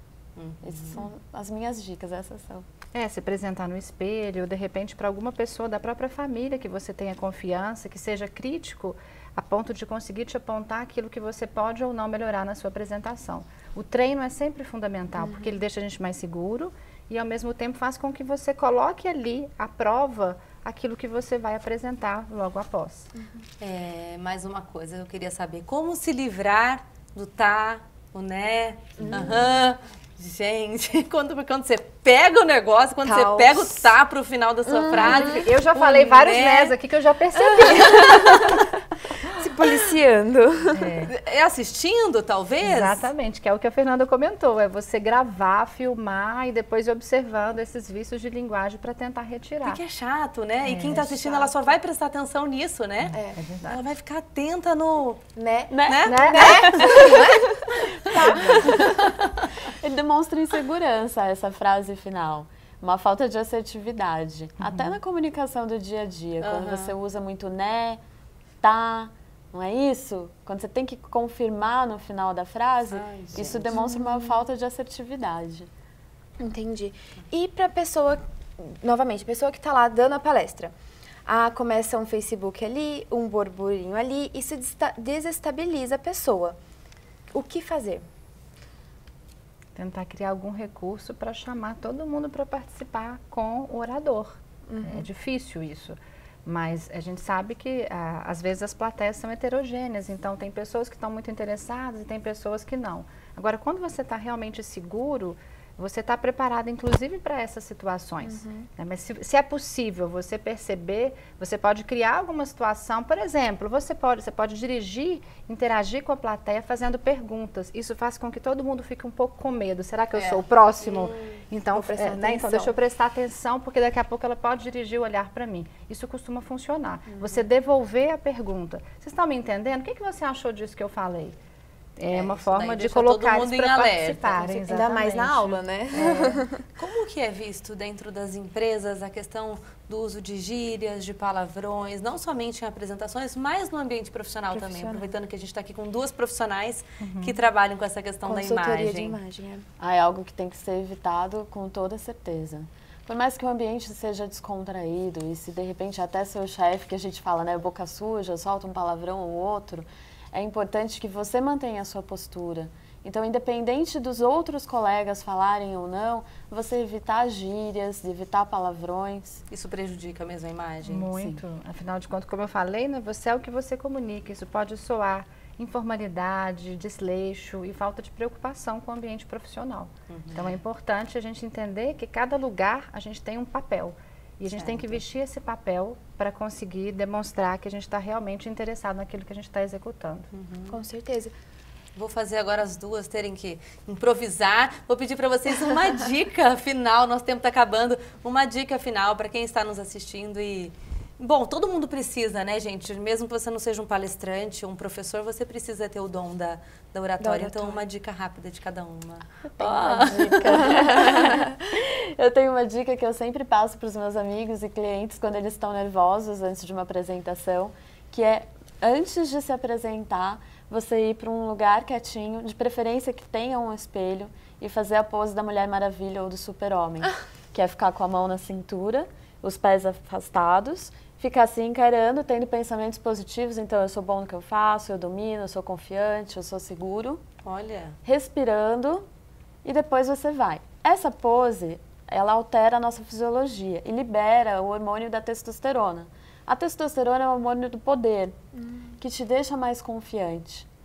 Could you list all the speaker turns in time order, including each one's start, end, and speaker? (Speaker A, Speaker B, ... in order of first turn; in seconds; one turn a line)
Speaker A: 0.4-1.1
Speaker B: 0.6-2.6
Speaker C: 2.9-23.1
Speaker D: 15.2-15.6
Speaker D: 23.1-23.4
Speaker A: 23.6-36.8
Speaker D: 29.0-29.5
Speaker D: 33.0-33.9
Speaker D: 34.7-35.5
Speaker C: 34.9-38.6
Speaker D: 37.6-38.6
Speaker D: 39.2-41.0
Speaker C: 40.7-41.1
Speaker A: 41.1-43.1
Speaker C: 42.6-49.8
Speaker A: 49.6-55.3
Speaker C: 50.6-51.5
Speaker C: 53.0-53.8
Speaker D: 53.1-53.4
Speaker D: 55.4-59.0
Speaker B: 55.7-57.2
Speaker A: 55.8-57.3
Speaker C: 56.1-57.0
Speaker B: 58.2-58.9
Speaker C: 58.2-58.7
Speaker A: 58.6-59.5
Speaker B: 59.7-68.0
Speaker C: 64.6-65.0
Speaker A: 66.4-67.0
Speaker B: 68.6-75.7
Speaker A: 72.9-73.7
Speaker D: 73.7-74.4
Speaker D: 76.4-80.7
Speaker D: 81.3-86.6
Speaker D: 87.3-88.0
Speaker C: 89.8-131.4
Speaker D: 94.7-95.1
Speaker D: 108.2-108.7
Speaker A: 120.2-121.4
Speaker D: 121.7-122.8
Speaker D: 127.2-127.5
Speaker C: 132.0-136.4
Speaker A: 132.1-134.4
Speaker D: 134.4-136.6
Speaker A: 136.8-149.2
Speaker D: 144.5-145.1
Speaker C: 147.0-147.4
Speaker D: 148.2-149.7
Speaker B: 149.8-169.4
Speaker A: 169.5-171.1
Speaker C: 170.8-190.3
Speaker A: 180.1-180.6
Speaker A: 184.6-185.0
Speaker A: 190.3-190.8
Speaker D: 190.7-191.3
Speaker A: 192.0-210.9
Speaker D: 207.2-207.8
Speaker B: 209.6-237.2
Speaker D: 210.6-211.4
Speaker A: 237.4-238.0
Speaker B: 238.1-239.1
Speaker B: 239.6-248.4
Speaker D: 248.6-248.9
Speaker B: 249.0-250.7